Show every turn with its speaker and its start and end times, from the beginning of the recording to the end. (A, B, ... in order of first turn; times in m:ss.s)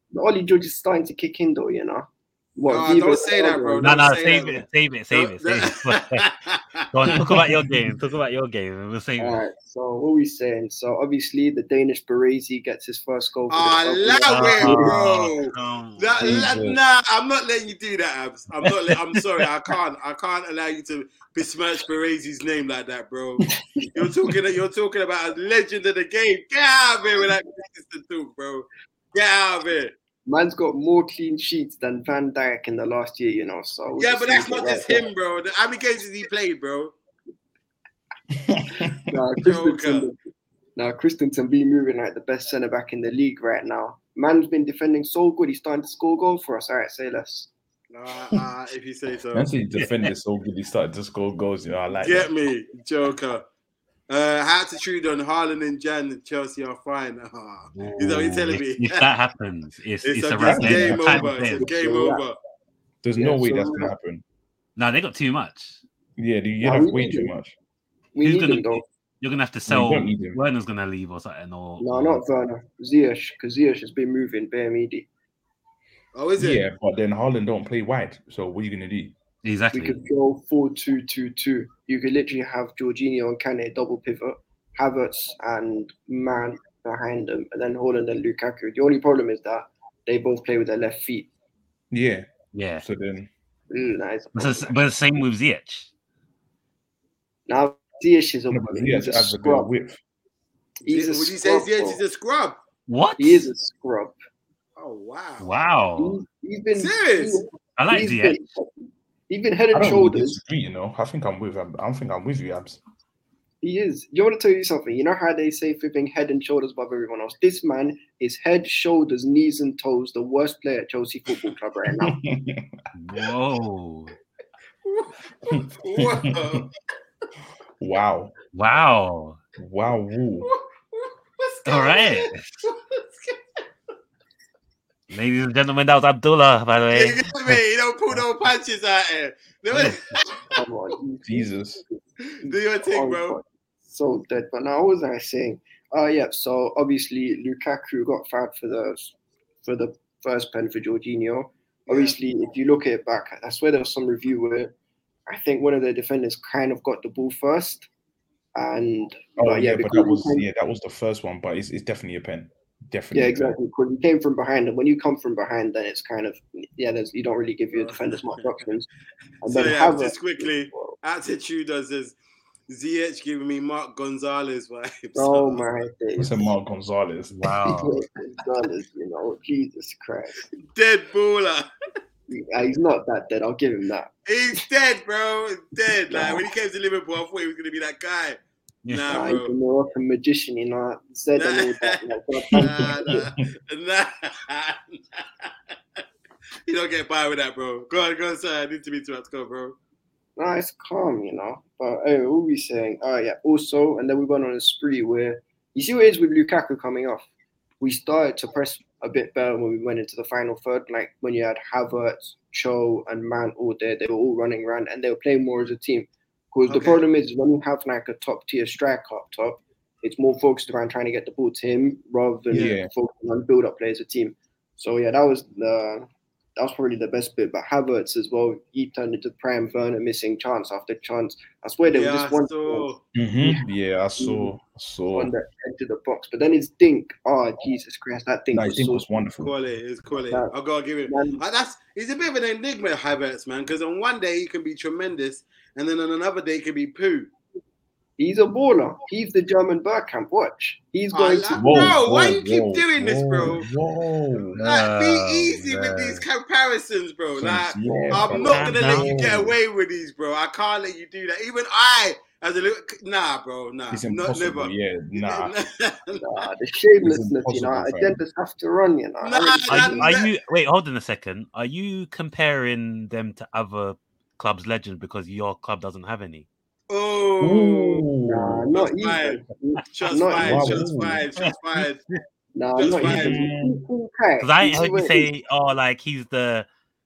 0:00.1-0:04.0 A
0:02.7-0:07.2 B
0:03.8-0:06.2 C
0:06.9-0:09.4 C
0:07.1-0:07.9 D
0:09.2-0:15.0 A
0:13.5-0:23.4 B
0:14.3-0:16.4 C
0:16.2-0:16.8 D
0:23.9-0:29.9 B
0:30.2-0:35.0 A
0:34.0-0:36.9 B
0:38.4-0:39.0 D
0:39.1-0:40.2 A
0:39.4-0:40.1 B
0:40.8-0:47.5 A
0:47.9-0:49.5 B
0:49.3-0:52.3 D
0:49.8-0:50.1 C
0:52.0-0:53.4 B
0:54.1-0:59.0 B
0:57.7-1:01.7 C
1:00.0-1:02.4 B
1:00.4-1:01.3 D
1:01.6-1:02.2 A
1:03.0-1:04.2 D
1:03.2-1:03.9 A
1:04.8-1:05.8 C
1:06.2-1:07.5 D
1:06.6-1:07.3 A
1:08.1-1:08.8 A
1:08.2-1:12.2 C
1:09.7-1:10.4 D
1:11.8-1:15.1 A
1:16.1-1:16.6 B
1:16.4-1:19.1 D
1:19.4-1:20.0 C
1:19.7-1:31.3 A
1:31.9-1:32.3 D
1:32.5-1:32.8 C
1:32.8-1:33.3 D
1:33.7-1:34.7 A
1:34.3-1:35.9 C
1:37.5-1:39.7 A
1:38.5-1:40.0 D
1:40.8-1:42.0 A
1:40.8-1:42.6 B
1:42.9-1:43.5 C
1:43.2-1:44.2 A
1:44.8-1:45.5 B
1:45.4-1:46.2 C
1:46.0-1:48.7 A
1:46.8-1:47.4 B
1:47.8-1:48.4 C
1:49.3-1:50.4 A
1:49.7-1:52.8 D
1:53.6-2:02.2 A
2:02.0-2:02.7 D
2:02.9-2:04.1 C
2:04.8-2:06.7 B
2:05.6-2:06.7 D
2:07.8-2:08.3 D
2:08.5-2:09.4 C
2:09.6-2:10.5 D
2:10.4-2:13.4 B
2:11.6-2:12.4 C
2:15.1-2:17.6 C
2:16.9-2:20.4 B
2:19.7-2:20.2 C
2:20.5-2:34.7 A
2:21.2-2:21.8 D
2:22.3-2:23.4 B
2:31.9-2:32.2 B
2:35.3-2:37.9 A
2:38.5-2:40.4 A
2:39.4-2:43.6 D
2:43.1-2:48.9 A
2:47.7-2:48.4 B
2:49.4-2:51.0 A
2:49.4-2:52.2 B
2:52.7-2:55.7 B
2:55.1-2:56.3 A
2:56.2-2:57.5 D
2:57.3-2:58.0 C
2:57.6-3:00.5 A
3:00.6-3:01.7 B
3:02.3-3:04.1 A
3:04.3-3:09.5 B
3:06.1-3:06.4 A
3:08.8-3:09.2 C
3:09.1-3:12.9 A
3:11.4-3:12.0 B
3:12.5-3:15.5 B
3:12.6-3:13.3 D
3:16.6-3:19.8 B
3:20.4-3:27.2 A
3:27.8-3:53.7 A
3:36.6-3:37.0 B
3:42.5-3:42.9 D
3:51.9-3:53.0 B
3:53.1-3:55.3 D
3:54.2-3:54.5 A
3:55.1-3:59.0 A
3:58.5-3:59.5 D
3:59.4-4:07.3 B
4:01.1-4:01.4 A
4:08.2-4:12.0 A
4:11.1-4:13.6 B
4:11.5-4:14.6 D
4:14.5-4:26.2 B
4:14.6-4:16.2 C
4:17.4-4:19.6 D
4:18.3-4:19.1 C
4:23.9-4:25.5 D
4:26.2-4:30.1 A
4:27.0-4:28.2 D
4:29.2-4:30.3 B
4:29.7-4:36.5 C
4:36.9-4:38.0 B
4:37.4-4:38.7 D
4:38.2-4:40.9 A
4:38.7-4:42.0 B
4:40.4-4:41.2 D
4:41.4-4:41.9 C
4:42.5-4:45.3 A
4:42.8-4:43.4 B
4:43.0-4:43.8 D
4:44.4-4:46.6 C